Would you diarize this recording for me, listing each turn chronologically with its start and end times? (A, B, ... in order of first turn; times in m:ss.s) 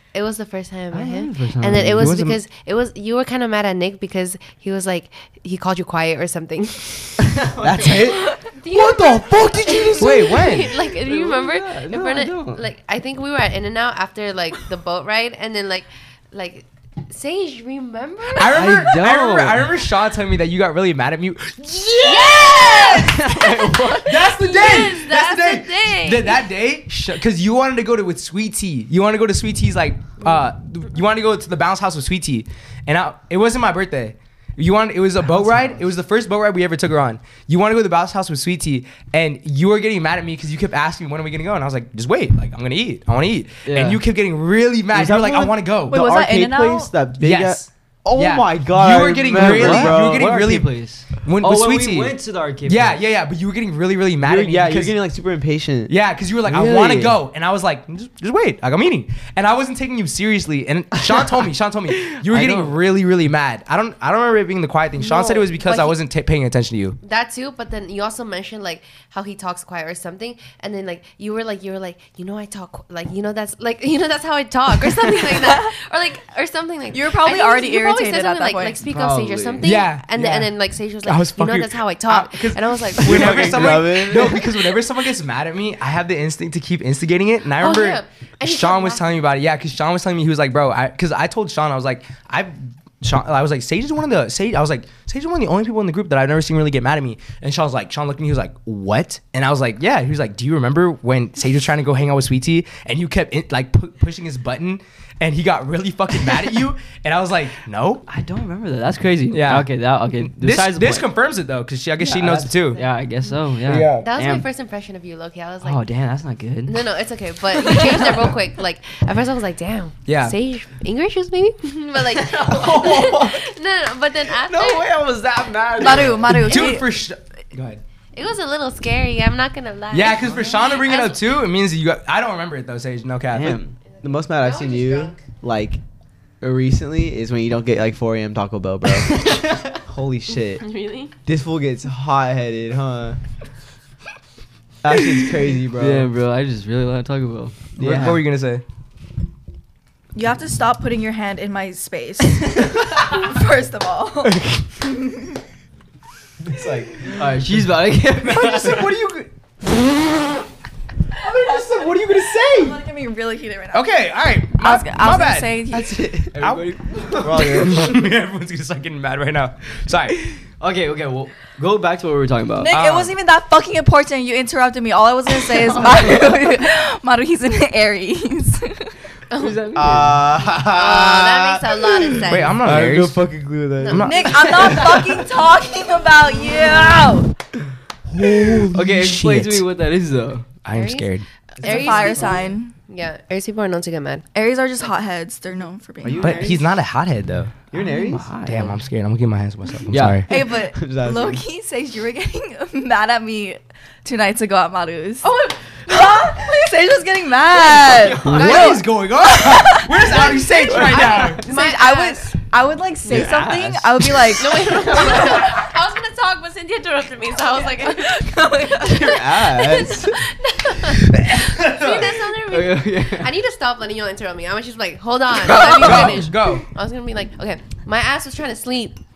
0:00.1-0:07.4 A
0:00.9-0:02.1 B
0:02.0-0:02.4 C
0:07.2-0:08.1 B
0:07.6-0:10.6 D
0:08.2-0:18.8 A
0:10.0-0:10.7 C
0:11.0-0:12.6 B
0:18.3-0:23.4 C
0:18.4-0:19.7 B
0:22.0-0:26.4 A
0:22.9-0:24.1 B
0:24.0-0:46.0 C
0:43.6-0:44.0 B
0:44.9-0:50.4 D
0:45.9-0:46.9 E
0:47.2-0:55.0 C
0:49.3-0:53.0 B
0:54.2-0:55.9 D
0:55.9-1:07.0 C
0:56.4-0:57.2 D
1:02.1-1:02.8 B
1:05.0-1:06.0 A
1:07.0-1:23.8 A
1:15.4-1:15.7 E
1:16.9-1:18.8 E
1:18.9-1:19.8 B
1:19.6-1:20.5 C
1:21.0-1:48.0 C
1:23.0-1:24.5 D
1:27.6-1:29.2 A
1:48.1-1:51.1 B
1:49.3-1:52.8 C
1:52.0-1:54.4 B
1:53.7-1:54.0 D
1:54.0-1:55.8 A
1:55.6-1:56.9 B
1:56.6-2:05.0 A
1:57.5-1:58.4 B
2:00.1-2:00.4 C
2:02.2-2:03.2 B
2:04.5-2:06.4 B
2:05.3-2:06.2 D
2:05.8-2:06.9 E
2:06.2-2:07.8 C
2:08.1-2:11.4 A
2:09.9-2:13.6 C
2:13.3-2:13.8 B
2:13.8-2:15.3 A
2:14.0-2:15.8 D
2:16.4-2:20.7 D
2:19.1-2:19.7 B
2:20.5-2:21.1 A
2:21.2-2:23.2 D
2:24.8-2:26.1 D
2:24.9-2:28.2 B
2:27.8-2:28.2 D
2:27.8-2:28.6 C
2:30.1-2:35.4 E
2:36.4-2:37.2 D
2:37.0-2:39.0 B
2:38.2-2:40.2 C
2:41.2-2:42.8 C
2:41.2-2:41.7 E
2:42.3-2:45.9 E
2:43.7-2:45.6 C
2:45.7-2:46.5 D
2:46.3-2:47.8 B
2:46.4-2:50.2 C
2:47.1-2:48.0 D
2:50.3-2:52.7 B
2:52.6-2:58.9 E
2:52.7-2:53.1 C
2:59.3-2:59.6 A
2:59.3-3:00.2 B
2:59.7-3:05.1 D
3:00.6-3:02.6 A
3:02.3-3:03.2 C
3:03.8-3:04.6 A
3:03.8-3:04.7 C
3:04.0-3:07.3 E
3:08.1-3:08.7 D
3:08.2-3:09.6 C
3:08.7-3:10.5 B
3:10.6-3:11.2 C
3:10.7-3:14.2 A
3:11.6-3:12.5 D
3:11.6-3:12.7 E
3:14.3-3:16.5 E
3:16.0-3:16.8 D
3:16.2-3:17.5 C
3:17.7-3:18.3 D
3:17.9-3:18.7 B
3:18.4-3:20.3 C
3:19.9-3:20.2 B
3:20.3-3:34.8 E
3:20.3-3:21.4 D
3:27.7-3:28.7 B
3:28.2-3:31.4 C
3:28.3-3:28.9 A
3:30.7-3:31.3 D
3:30.8-3:32.3 A
3:33.1-3:35.1 B
3:33.1-3:33.4 D
3:34.3-3:49.0 A
3:38.4-3:39.0 E
3:38.8-3:40.2 D
3:39.8-3:40.1 E
3:41.1-3:42.2 C
3:42.5-3:43.3 B
3:45.4-3:46.6 C